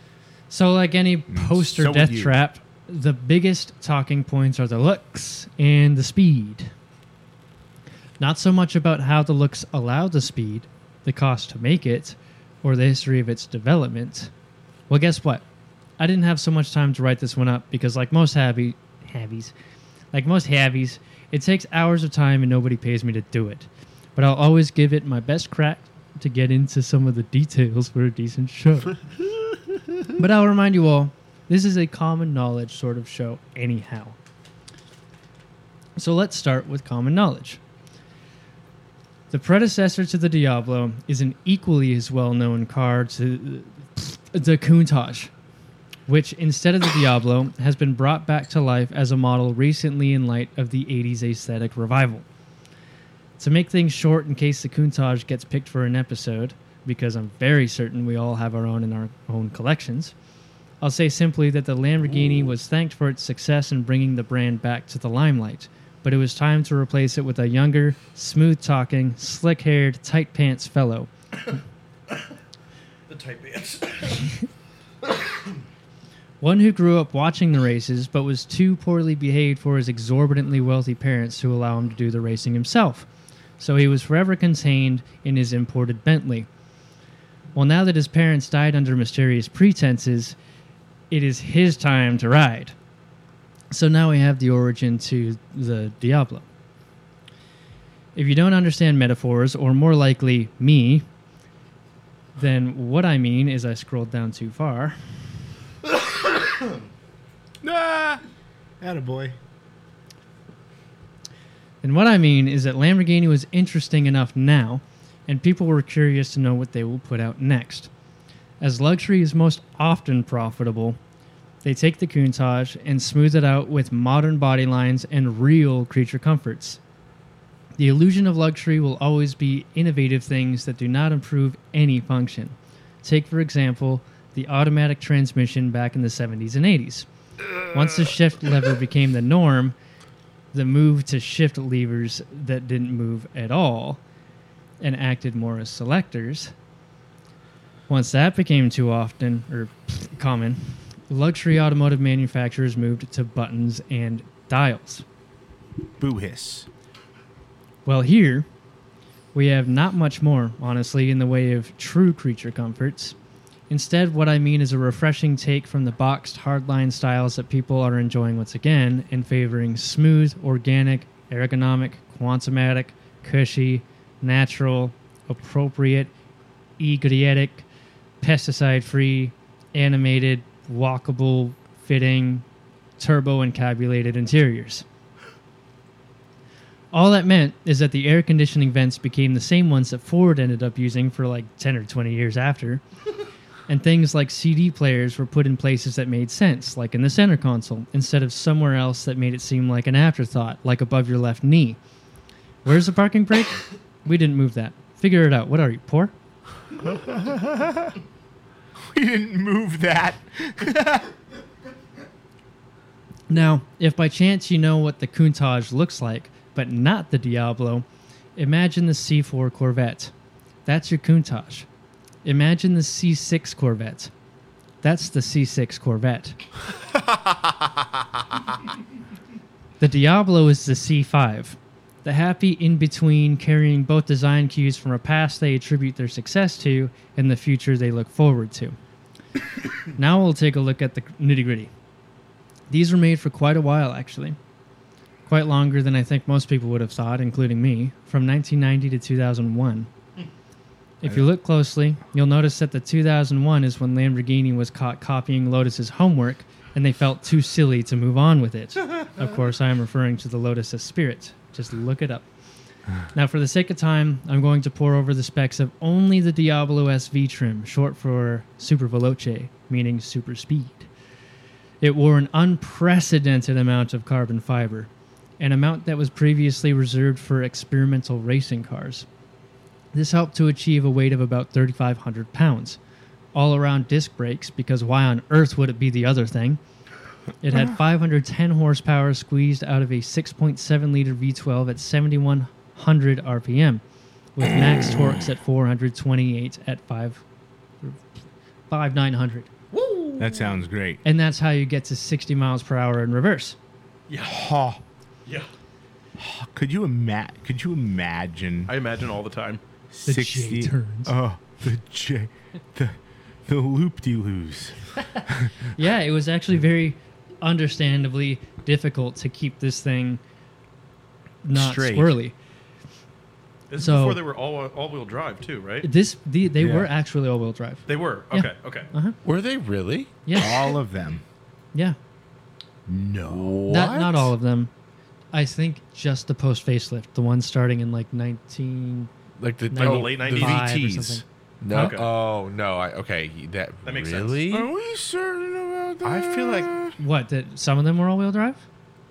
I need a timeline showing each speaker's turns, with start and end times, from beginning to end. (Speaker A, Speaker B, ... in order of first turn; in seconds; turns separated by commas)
Speaker A: 0.5-6.7, Speaker B: 1.3-2.3, Speaker A: 8.2-14.3, Speaker A: 14.9-15.4, Speaker A: 16.0-19.5, Speaker A: 20.1-29.0, Speaker A: 30.1-34.1, Speaker A: 36.0-37.6, Speaker A: 39.3-45.3, Speaker A: 46.1-52.2, Speaker A: 53.4-60.1, Speaker A: 60.8-71.1, Speaker C: 73.1-74.4, Speaker A: 76.4-83.1, Speaker A: 83.6-86.5, Speaker A: 87.5-90.3, Speaker A: 91.1-92.7, Speaker A: 93.7-96.4, Speaker A: 98.1-101.0, Speaker A: 102.3-105.0, Speaker B: 107.6-108.2, Speaker B: 108.8-109.4, Speaker A: 111.8-117.9, Speaker A: 118.6-121.0, Speaker A: 121.6-126.8, Speaker A: 127.8-137.1, Speaker A: 137.6-139.7, Speaker A: 140.5-144.0, Speaker A: 144.8-146.5, Speaker A: 147.9-155.0, Speaker B: 156.0-156.7, Speaker A: 157.8-158.5, Speaker A: 159.3-163.1, Speaker A: 163.7-176.1, Speaker A: 176.8-177.7, Speaker A: 178.2-182.4, Speaker A: 183.0-184.8, Speaker A: 186.9-192.8, Speaker A: 193.7-201.8, Speaker A: 202.6-206.1, Speaker B: 208.9-211.1, Speaker A: 213.3-220.1, Speaker A: 220.7-221.7, Speaker A: 222.2-224.1, Speaker A: 224.8-226.4, Speaker A: 229.8-238.8, Speaker A: 239.9-241.7, Speaker A: 242.7-244.4, Speaker A: 245.2-249.9, Speaker A: 251.0-262.3, Speaker A: 263.1-270.9, Speaker A: 271.8-279.1, Speaker A: 279.9-282.8, Speaker A: 283.3-286.6, Speaker A: 287.4-293.8, Speaker A: 294.4-297.2, Speaker A: 298.7-299.5, Speaker C: 299.7-300.6, Speaker B: 300.2-301.0, Speaker A: 301.0-303.6, Speaker C: 304.1-304.4, Speaker B: 304.2-304.8, Speaker B: 306.2-308.7, Speaker C: 308.7-309.6, Speaker B: 309.9-312.9, Speaker A: 310.1-311.1, Speaker B: 313.5-315.5, Speaker A: 315.7-320.2, Speaker A: 321.4-322.3, Speaker B: 321.5-322.1, Speaker C: 323.7-325.9, Speaker A: 323.8-324.2, Speaker A: 325.8-329.2, Speaker B: 326.6-326.9, Speaker C: 327.9-328.9, Speaker D: 329.2-330.1, Speaker A: 330.2-330.7, Speaker B: 330.4-331.2, Speaker B: 332.9-333.6, Speaker D: 333.3-334.3, Speaker A: 333.7-334.7, Speaker A: 335.3-339.1, Speaker D: 339.4-344.7, Speaker A: 339.7-342.0, Speaker C: 339.8-340.7, Speaker C: 341.7-342.1, Speaker C: 343.8-344.4, Speaker B: 344.5-347.0, Speaker D: 346.0-346.7, Speaker A: 347.0-348.6